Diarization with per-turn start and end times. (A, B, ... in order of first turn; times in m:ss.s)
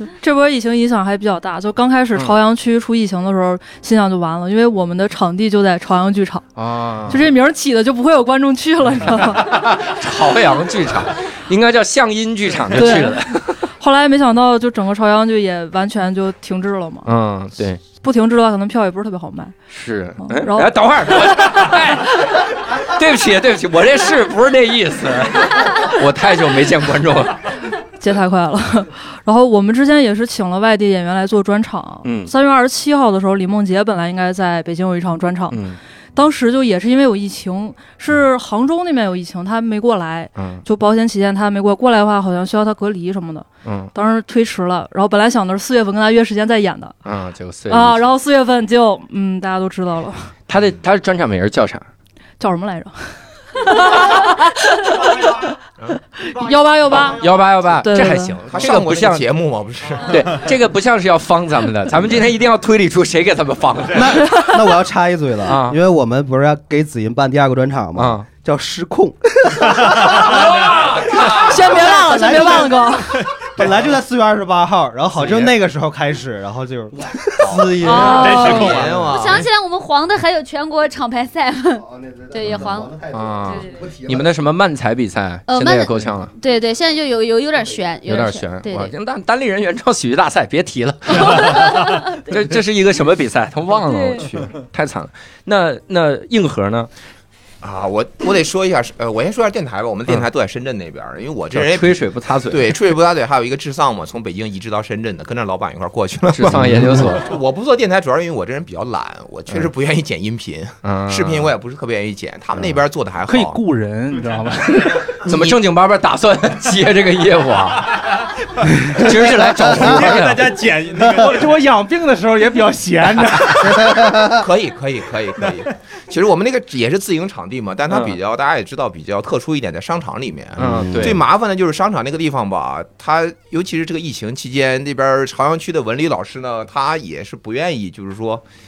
0:00.2-0:06.5 A
0:06.6-0:07.2 B
0:07.1-0:09.6 A
0:09.2-0:13.6 B
0:12.7-0:17.1 A
0:17.0-0:17.8 B
0:17.8-0:19.6 A
0:19.7-0:27.4 B
0:20.2-0:21.3 A
0:28.0-0:35.6 A
0:32.0-0:32.3 B
0:35.5-0:35.8 B
0:36.1-0:47.0 A
0:40.3-0:40.6 B
0:43.6-0:43.9 B
0:47.0-0:48.0 B
0:47.7-0:50.3 A
0:50.5-0:51.8 B
0:52.4-0:55.5 A
0:56.2-0:58.4 A
0:57.1-0:59.3 B
0:58.5-1:00.2 C
1:00.0-1:04.2 B
1:03.9-1:10.5 D
1:05.5-1:05.8 B
1:08.0-1:08.2 B
1:10.0-1:11.8 B
1:11.4-1:13.2 A
1:11.5-1:18.9 D
1:13.4-1:13.8 E
1:15.2-1:15.5 B
1:17.4-1:19.5 C
1:17.8-1:18.8 A
1:17.8-1:19.0 E
1:19.1-1:22.9 F
1:21.8-1:24.3 D
1:22.4-1:26.3 B
1:23.5-1:23.8 F
1:25.5-1:28.9 F
1:28.1-1:36.9 B
1:31.1-1:32.1 F
1:33.8-1:34.2 F
1:37.6-1:53.6 C
1:41.5-1:42.8 B
1:46.3-1:47.3 B
1:50.8-1:51.5 B
1:53.3-1:55.4 G
1:55.1-1:58.2 B
1:58.9-2:00.5 B
1:59.5-2:01.6 E
2:00.9-2:03.8 G
2:03.8-2:04.4 D
2:04.2-2:18.4 C
2:07.9-2:08.2 B
2:10.6-2:11.2 B
2:10.6-2:11.2 D